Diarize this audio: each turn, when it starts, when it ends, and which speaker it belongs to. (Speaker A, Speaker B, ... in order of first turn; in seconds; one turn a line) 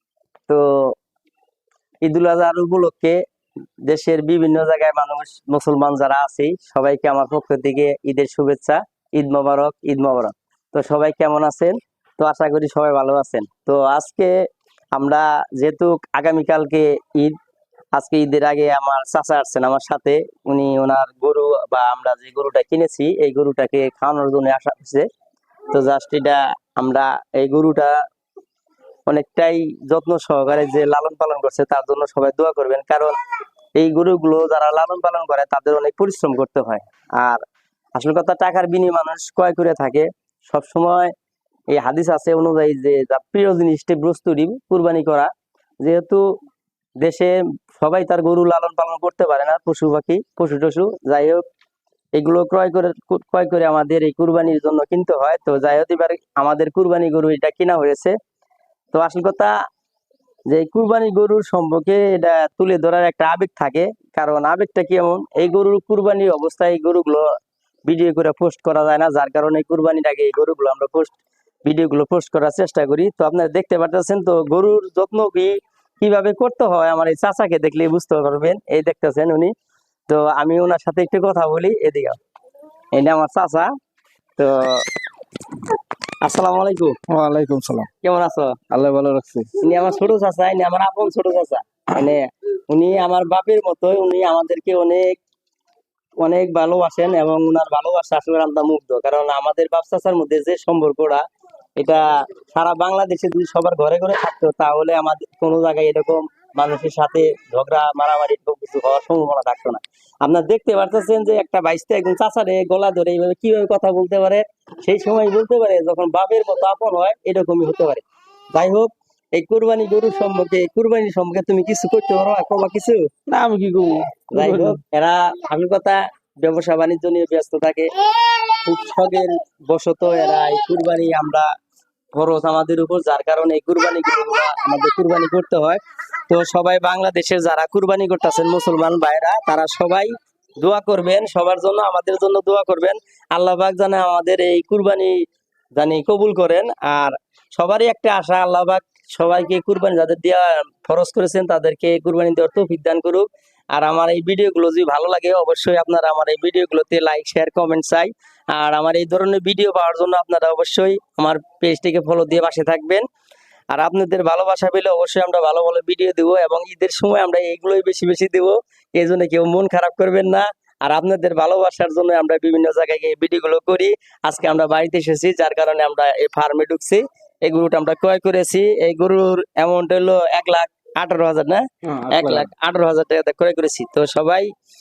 Speaker A: 0.5-0.9
Speaker A: 2.0-3.2
Speaker A: 3.8-14.3
Speaker A: 14.9-17.4
Speaker A: 17.9-25.1
Speaker A: 25.7-27.9
Speaker A: 29.1-33.2
Speaker A: 33.8-37.4
Speaker A: 37.9-41.1
Speaker A: 41.7-45.3
Speaker A: 45.8-46.2
Speaker A: 47.0-51.4
Speaker A: 52.1-58.1
Speaker A: 58.9-59.5
Speaker A: 60.5-67.3
Speaker A: 67.8-79.5
Speaker A: 80.1-82.2
Speaker A: 82.9-83.7
Speaker A: 84.4-84.8
Speaker A: 86.2-87.0
Speaker B: 87.1-87.9
Speaker A: 88.0-88.6
Speaker B: 88.7-89.5
Speaker A: 89.6-95.2
Speaker A: 96.2-101.2
Speaker A: 101.8-123.1
Speaker B: 123.3-124.8
Speaker A: 124.3-127.9
Speaker A: 128.5-131.5
Speaker A: 132.1-145.2
Speaker A: 145.8-163.0
Speaker A: 163.7-184.5
Speaker B: 181.8-182.5